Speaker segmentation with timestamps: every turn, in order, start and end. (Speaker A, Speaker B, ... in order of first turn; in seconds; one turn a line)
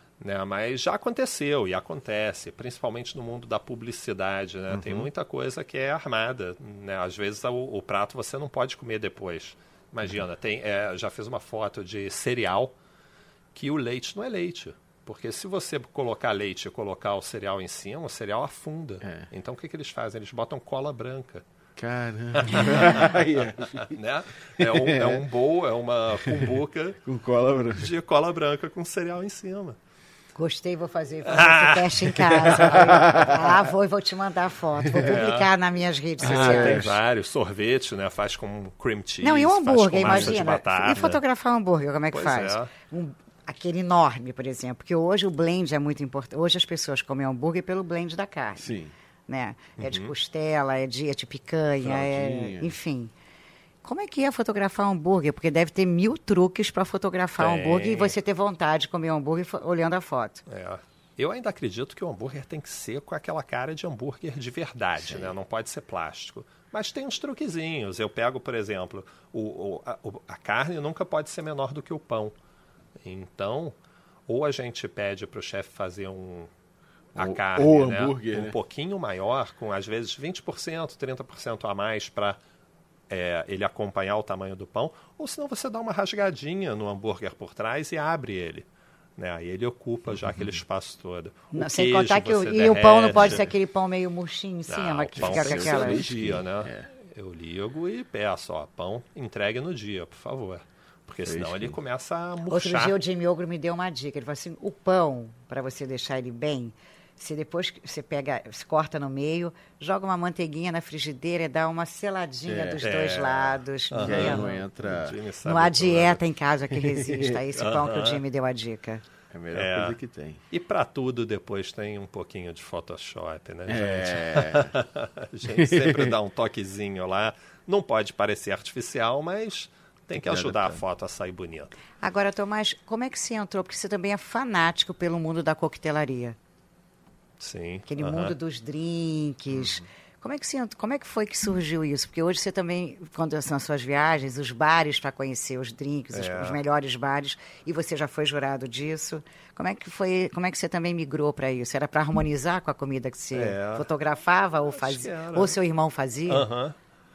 Speaker A: 0.2-12.7
Speaker B: 4.7-5.1
Speaker A: 13.6-21.4
Speaker B: 19.0-19.3
Speaker B: 21.8-24.0
Speaker A: 22.4-23.1
Speaker A: 23.8-27.0
Speaker B: 24.6-25.2
Speaker B: 26.2-27.9
Speaker A: 27.8-29.8
Speaker C: 30.4-36.9
Speaker A: 31.3-32.2
Speaker B: 32.4-33.5
Speaker A: 35.0-35.5
Speaker A: 36.2-41.2
Speaker B: 36.2-37.0
Speaker C: 39.2-48.7
Speaker B: 40.0-40.4
Speaker A: 42.1-42.7
Speaker B: 48.6-48.9
Speaker C: 49.3-53.1
Speaker A: 49.8-50.1
Speaker B: 51.8-52.7
Speaker C: 53.8-60.4
Speaker A: 57.4-58.1
Speaker A: 60.5-72.3
Speaker B: 65.0-65.4
Speaker A: 73.0-73.8
Speaker A: 74.3-76.5
Speaker A: 77.2-82.4
Speaker B: 77.2-78.5
Speaker A: 83.1-88.7
Speaker A: 89.2-93.5
Speaker C: 91.5-96.0
Speaker A: 94.7-103.0
Speaker B: 95.2-96.9
Speaker B: 101.3-101.7
Speaker C: 102.5-114.5
Speaker B: 112.5-112.8
Speaker A: 112.8-116.2
Speaker B: 114.0-115.2
Speaker C: 115.5-119.0
Speaker A: 117.6-118.2
Speaker B: 119.3-120.4
Speaker A: 119.5-120.0
Speaker A: 120.5-131.8
Speaker B: 123.7-124.7
Speaker B: 125.6-126.1
Speaker B: 130.2-130.8
Speaker C: 132.0-136.4
Speaker A: 137.4-138.3
Speaker C: 137.9-156.5
Speaker B: 139.5-139.8
Speaker A: 146.1-146.6
Speaker A: 153.3-153.9
Speaker A: 154.8-155.6
Speaker A: 156.3-156.8